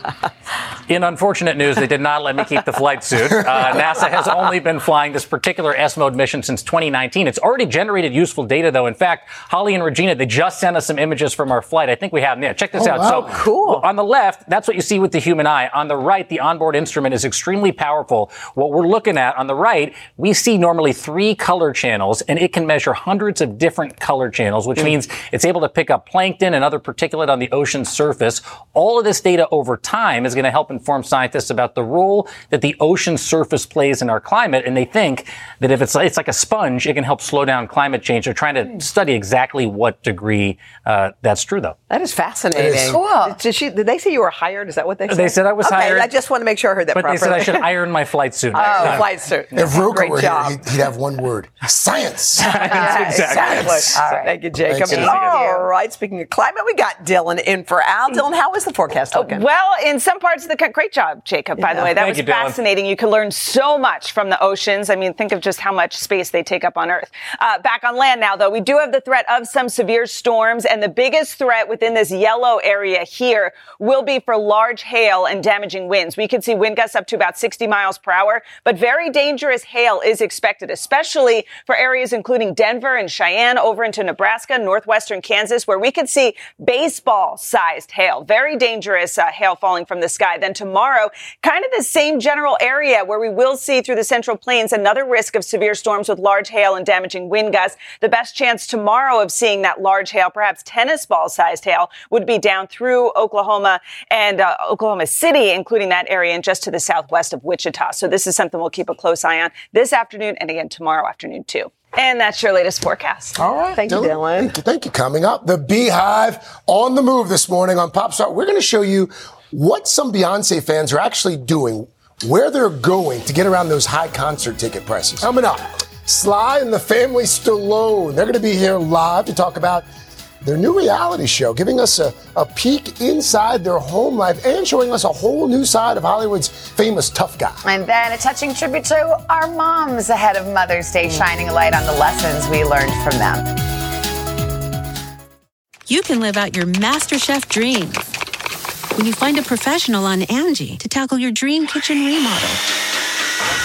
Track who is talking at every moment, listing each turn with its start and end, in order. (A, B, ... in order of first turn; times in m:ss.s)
0:00.9-0:41.8 A
0:12.7-0:13.3 B
0:13.3-0:13.8 C
0:41.9-0:47.7 C
0:42.5-0:43.0 B
0:42.9-0:43.4 D
0:45.1-0:46.1 A
0:46.9-0:49.8 A
0:48.5-0:50.6 C
0:48.6-0:49.0 D
0:49.5-0:52.7 B
0:52.4-0:59.4 C
0:52.4-0:54.0 A
0:52.7-0:55.7 D
0:54.7-0:55.1 B
0:54.9-0:55.3 A
0:59.1-1:53.4 E
1:01.6-1:02.6 A
1:53.4-2:09.8 B
1:53.8-1:54.5 C
2:10.4-2:17.6 B
2:17.6-2:23.6 D
2:25.9-2:28.1 F
2:29.0-2:32.6 F